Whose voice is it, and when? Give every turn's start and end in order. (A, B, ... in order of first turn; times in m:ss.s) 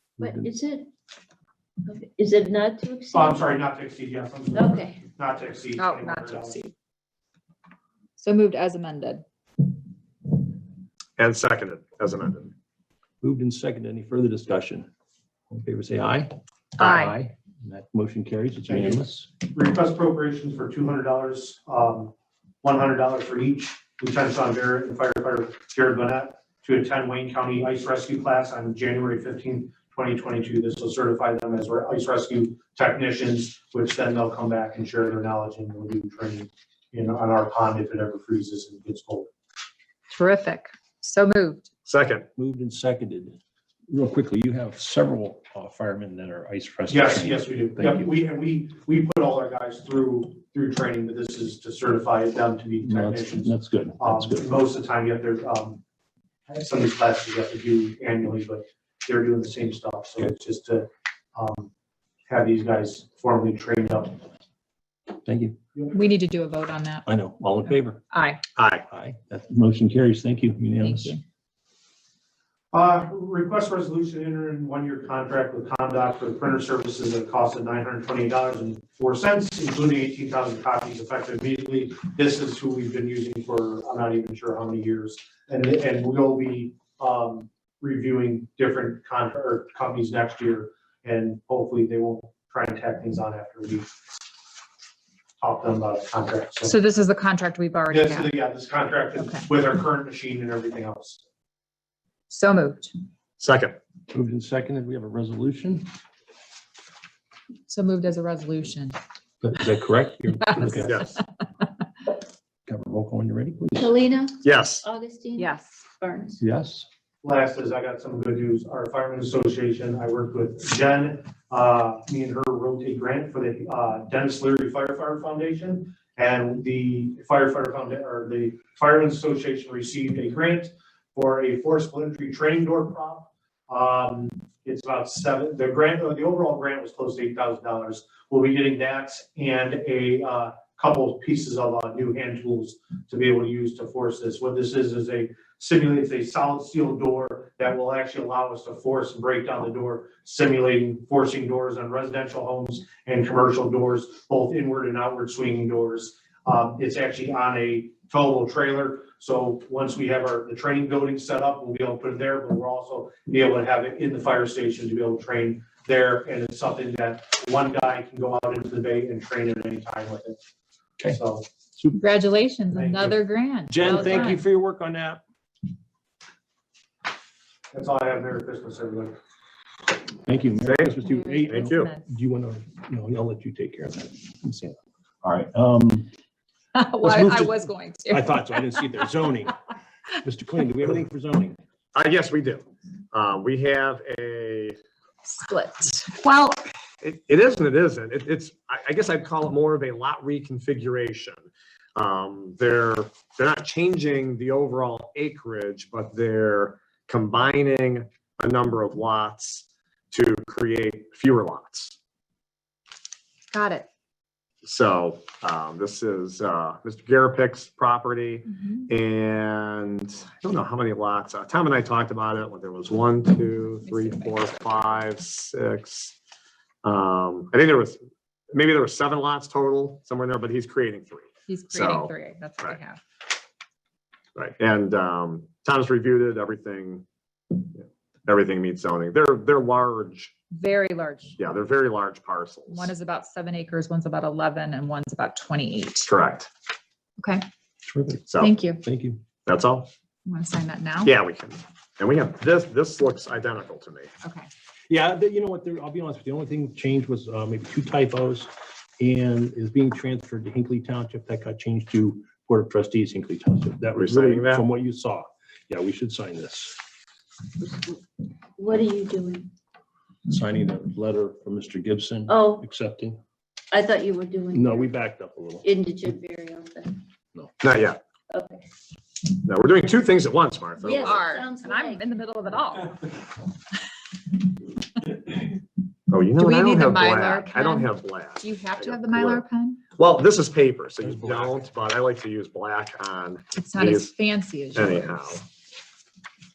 0:00.2-0:00.5 A
0:00.2-0:00.9 B
0:01.8-0:03.5 B
0:03.1-0:06.6 C
0:04.5-0:05.0 B
0:05.8-0:06.7 D
0:08.2-0:09.2 D
0:11.2-0:12.5 E
0:13.2-0:14.9 A
0:15.5-0:19.3 A
0:16.8-0:17.2 D
0:18.7-0:39.3 C
0:40.1-0:41.7 D
0:41.9-0:42.3 E
0:42.4-0:43.4 A
0:43.9-0:48.1 A
0:46.9-0:55.8 C
0:52.8-0:54.6 A
0:56.5-1:01.7 C
1:02.3-1:04.2 C
1:05.2-1:05.6 A
1:05.9-1:07.1 D
1:07.0-1:08.0 A
1:08.1-1:08.4 D
1:08.6-1:08.8 E
1:08.9-1:11.2 A
1:10.8-1:11.2 D
1:12.7-1:34.0 C
1:35.4-1:36.7 C
1:36.6-1:38.4 D
1:37.9-1:41.2 C
1:39.2-1:39.5 D
1:42.3-1:42.9 D
1:43.4-1:43.8 E
1:44.1-1:45.9 A
1:47.7-1:49.0 D
1:49.4-1:51.0 A
1:50.4-1:51.2 D
1:50.8-1:51.2 E
1:52.7-1:53.9 A
1:53.8-1:56.4 B
1:54.4-1:54.8 E
1:55.4-1:55.8 D
1:56.4-1:56.9 A
1:57.2-2:50.4 C
2:51.0-2:51.5 C
2:51.9-2:54.4 D
2:52.7-2:53.2 C
2:53.7-2:55.2 A
2:53.8-2:54.3 C
2:57.7-2:59.2 C
3:00.2-3:06.1 A
3:00.6-3:01.0 E
3:01.0-3:02.1 D
3:01.5-3:01.9 E
3:06.7-3:09.1 D
3:07.0-3:09.6 A
3:10.2-3:11.6 A
3:12.0-3:14.8 E
3:15.3-3:16.6 D
3:17.0-3:32.0 E
3:33.5-3:33.9 D
3:34.6-3:46.2 E
3:38.5-3:38.9 D
3:43.7-3:45.1 D
3:46.8-3:48.0 E
3:48.5-3:52.8 E
3:51.5-3:53.0 D
3:54.4-4:00.3 E
4:00.5-4:01.4 D
4:01.4-4:02.9 E
4:02.7-4:06.1 D
4:06.1-4:06.5 E
4:07.2-4:07.4 D
4:07.9-4:08.2 A
4:08.3-4:08.6 E
4:08.4-4:08.8 D
4:08.8-4:09.2 A
4:09.5-4:09.9 E
4:10.3-4:11.1 D
4:11.0-4:14.1 E
4:14.2-4:14.5 D
4:14.9-4:26.8 A
4:24.0-4:24.7 E
4:27.6-4:28.0 B
4:28.6-4:29.5 B
4:30.3-4:33.2 A
4:32.3-4:32.6 B
4:33.7-4:34.9 B
4:34.5-4:35.7 A
4:35.6-4:37.0 B
4:37.6-4:38.0 E
4:38.3-4:38.6 B
4:39.4-4:41.2 E
4:40.8-4:42.1 B
4:41.1-4:43.1 D
4:46.1-4:49.4 E
4:46.3-4:49.8 D
4:50.0-4:54.1 E
4:51.0-4:51.6 A
4:53.5-4:55.4 D
4:54.7-4:55.4 E